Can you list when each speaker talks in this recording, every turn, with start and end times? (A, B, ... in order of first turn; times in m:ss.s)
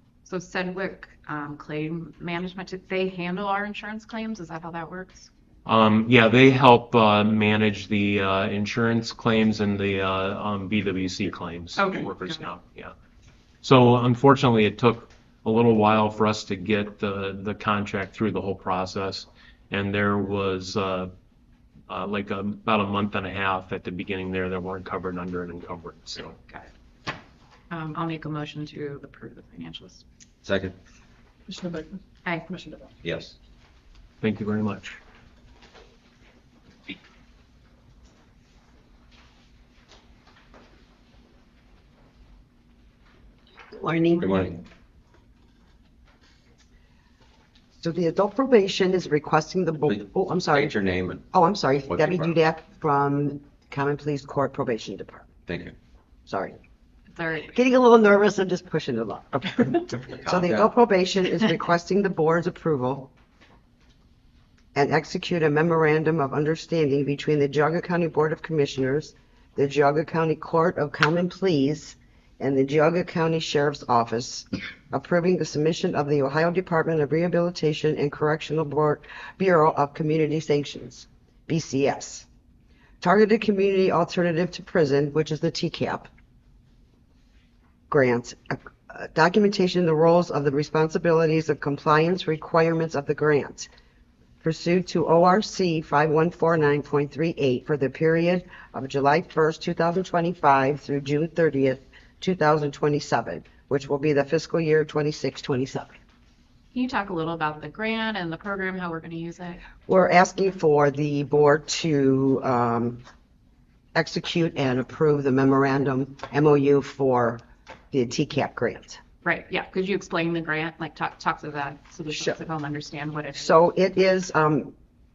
0:00.2-0:05.3 A
0:05.7-0:12.9 B
0:11.8-0:12.5 A
0:13.6-0:21.1 B
0:21.9-0:26.4 B
0:27.7-0:30.0 A
0:30.4-0:30.8 C
0:31.5-0:32.8 A
0:33.0-0:33.4 C
0:34.2-0:35.0 B
0:43.7-0:44.5 D
0:44.2-0:44.6 C
0:47.8-0:50.8 D
0:49.9-0:51.2 C
0:51.3-0:55.3 D
0:51.9-0:52.4 C
0:55.5-0:55.7 C
0:56.3-0:56.6 D
0:57.1-0:57.6 A
0:57.5-1:03.1 D
1:00.1-1:00.7 C
1:04.8-1:22.3 D
1:23.0-1:26.1 D
1:27.9-1:33.7 D
1:34.4-1:46.0 D
1:46.7-1:49.6 A
1:49.9-1:53.0 D
1:54.0-1:59.0 D
1:59.2-2:03.6 A
2:03.3-2:04.8 D